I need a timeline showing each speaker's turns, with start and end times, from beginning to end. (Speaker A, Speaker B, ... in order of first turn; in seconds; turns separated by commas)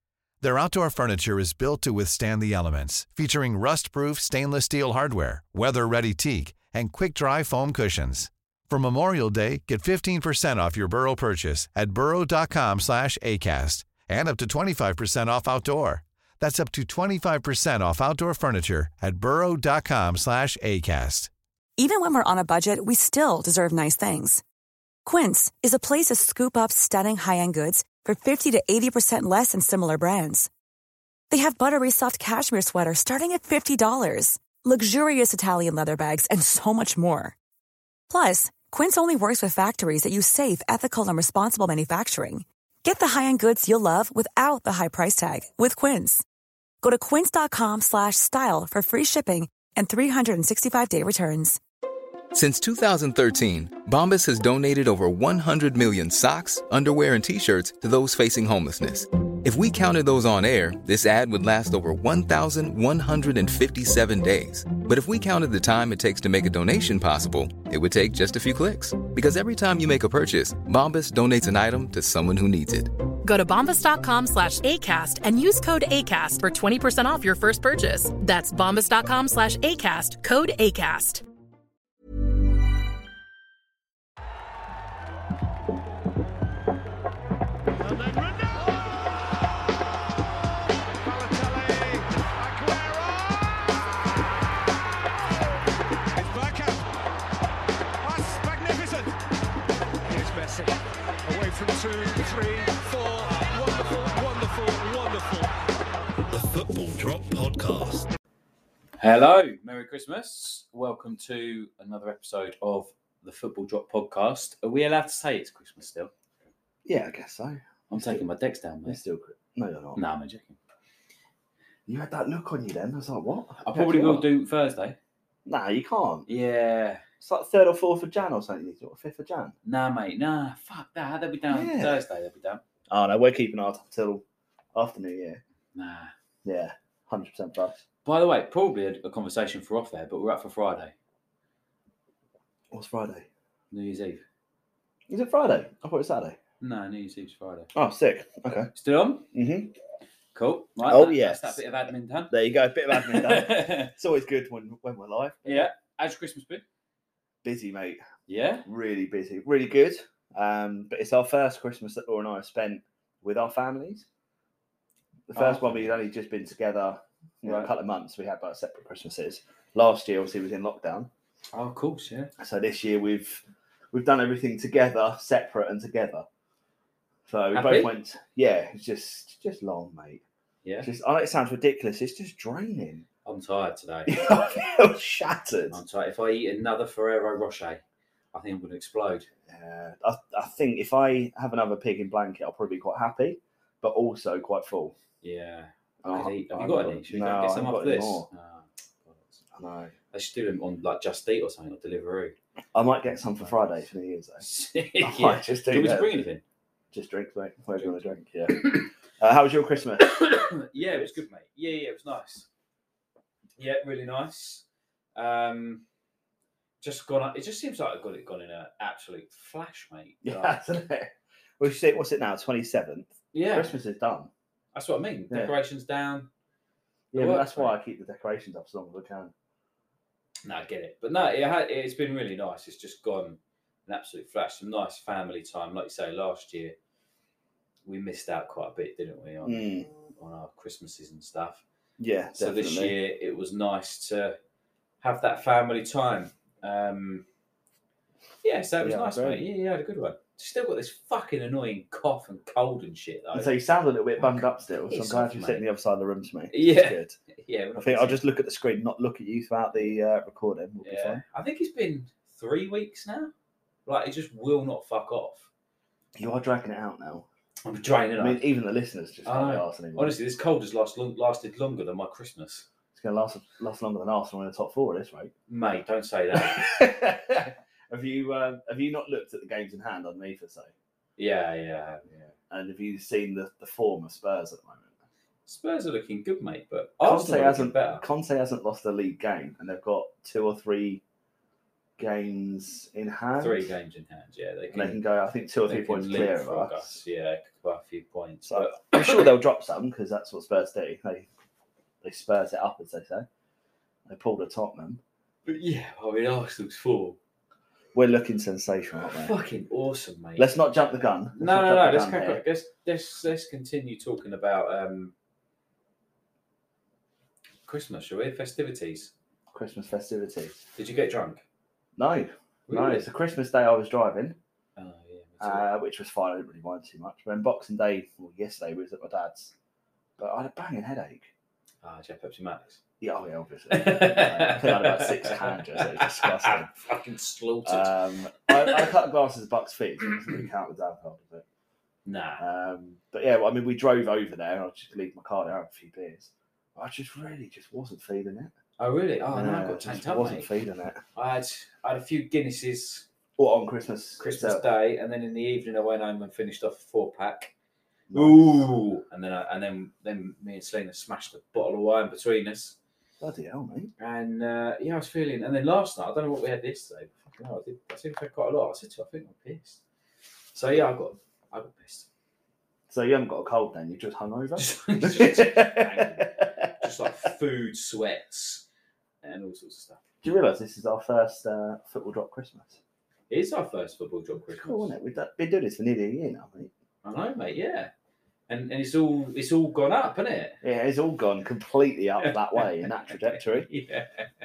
Speaker A: 0.4-21.3, Speaker B: 21.8-24.4, Speaker B: 25.0-30.5, Speaker B: 31.3-37.3, Speaker B: 38.1-46.2, Speaker B: 46.8-51.6, Speaker C: 52.3-72.9, Speaker D: 73.2-81.2, Speaker E: 87.8-89.5, Speaker E: 91.0-93.8, Speaker E: 96.1-96.9, Speaker E: 98.0-99.2, Speaker E: 100.1-105.5, Speaker F: 106.5-108.0, Speaker G: 109.0-116.1, Speaker F: 116.8-118.2, Speaker G: 117.9-119.0, Speaker F: 118.8-120.0, Speaker G: 119.9-120.6, Speaker F: 121.9-124.3, Speaker G: 123.6-125.0, Speaker F: 125.5-126.3, Speaker G: 126.3-127.0, Speaker F: 127.2-129.6, Speaker G: 129.6-132.6, Speaker F: 131.5-132.0, Speaker F: 132.9-135.4, Speaker G: 135.7-136.1, Speaker F: 136.4-137.8, Speaker G: 138.0-140.9, Speaker F: 142.7-143.3, Speaker G: 143.7-144.2, Speaker F: 145.1-146.4, Speaker G: 146.6-147.7, Speaker F: 147.7-148.7, Speaker G: 148.7-149.3, Speaker F: 149.3-149.7, Speaker G: 150.3-152.3, Speaker F: 150.8-151.6, Speaker F: 152.3-155.7, Speaker G: 152.9-153.9, Speaker G: 155.4-156.6, Speaker F: 157.4-158.0, Speaker G: 158.3-158.7, Speaker F: 158.6-164.1, Speaker F: 165.3-171.1, Speaker G: 165.3-165.9, Speaker G: 167.4-167.7, Speaker G: 171.5-172.3, Speaker F: 172.4-176.2, Speaker F: 177.3-180.2, Speaker G: 177.5-177.9, Speaker F: 180.8-183.0, Speaker G: 183.2-184.2, Speaker F: 184.1-185.8, Speaker G: 185.7-187.8, Speaker G: 188.3-189.3, Speaker F: 189.5-194.9, Speaker G: 195.2-199.4, Speaker F: 196.0-198.3, Speaker F: 199.5-199.9, Speaker G: 200.1-202.3, Speaker F: 202.7-204.4, Speaker G: 203.4-203.8, Speaker G: 204.4-206.4, Speaker F: 205.0-206.2, Speaker F: 206.9-211.2, Speaker G: 207.8-208.0, Speaker G: 208.5-208.8, Speaker G: 210.1-212.5, Speaker G: 213.6-214.6, Speaker G: 215.1-215.8, Speaker G: 216.8-220.6, Speaker F: 220.2-224.3, Speaker G: 223.3-223.8, Speaker G: 224.7-226.3, Speaker F: 227.1-229.3, Speaker G: 227.1-227.8, Speaker G: 230.4-236.7, Speaker G: 237.8-241.6, Speaker F: 239.4-239.9, Speaker F: 242.0-242.9, Speaker G: 242.4-244.4, Speaker G: 245.0-247.2, Speaker G: 248.4-253.5, Speaker F: 248.8-249.4, Speaker F: 253.3-257.1, Speaker G: 254.2-255.6, Speaker G: 256.5-258.2, Speaker F: 257.8-261.2, Speaker G: 260.8-263.3, Speaker G: 263.9-265.5, Speaker F: 266.1-267.2, Speaker G: 267.6-268.4, Speaker F: 268.2-270.2, Speaker G: 269.2-272.6, Speaker F: 272.9-275.3, Speaker G: 275.5-276.7, Speaker F: 276.3-280.7, Speaker G: 281.2-282.2, Speaker F: 282.4-284.9, Speaker G: 285.4-288.0, Speaker F: 287.0-291.0, Speaker F: 292.0-293.7, Speaker G: 293.4-295.0, Speaker F: 294.7-297.0, Speaker G: 295.6-299.3, Speaker F: 298.4-301.3, Speaker F: 302.0-303.3, Speaker F: 304.1-305.0, Speaker G: 305.4-307.2, Speaker F: 307.9-309.3, Speaker G: 309.1-310.5, Speaker F: 310.4-312.4, Speaker G: 311.3-315.1, Speaker G: 317.6-319.1, Speaker F: 319.5-320.6, Speaker G: 320.8-321.4, Speaker F: 321.9-324.4, Speaker G: 322.7-323.0, Speaker G: 324.8-325.7, Speaker F: 325.4-329.5, Speaker F: 330.2-331.3, Speaker G: 331.8-332.8, Speaker F: 333.0-336.7, Speaker G: 333.7-338.9, Speaker F: 337.6-341.4, Speaker G: 342.1-342.4, Speaker F: 342.4-348.5, Speaker G: 348.8-350.5, Speaker F: 349.3-351.0, Speaker G: 351.1-353.1, Speaker F: 353.4-354.6, Speaker G: 354.2-357.5, Speaker F: 358.1-358.6, Speaker G: 358.1-362.8, Speaker F: 363.2-363.9, Speaker G: 364.0-369.8, Speaker G: 370.5-372.1, Speaker F: 372.9-376.7, Speaker G: 374.6-378.6, Speaker G: 379.2-380.0, Speaker F: 380.2-382.8, Speaker G: 383.3-384.9, Speaker F: 384.4-386.7, Speaker G: 387.0-387.9, Speaker G: 388.5-390.6, Speaker F: 390.6-393.7, Speaker G: 392.2-394.3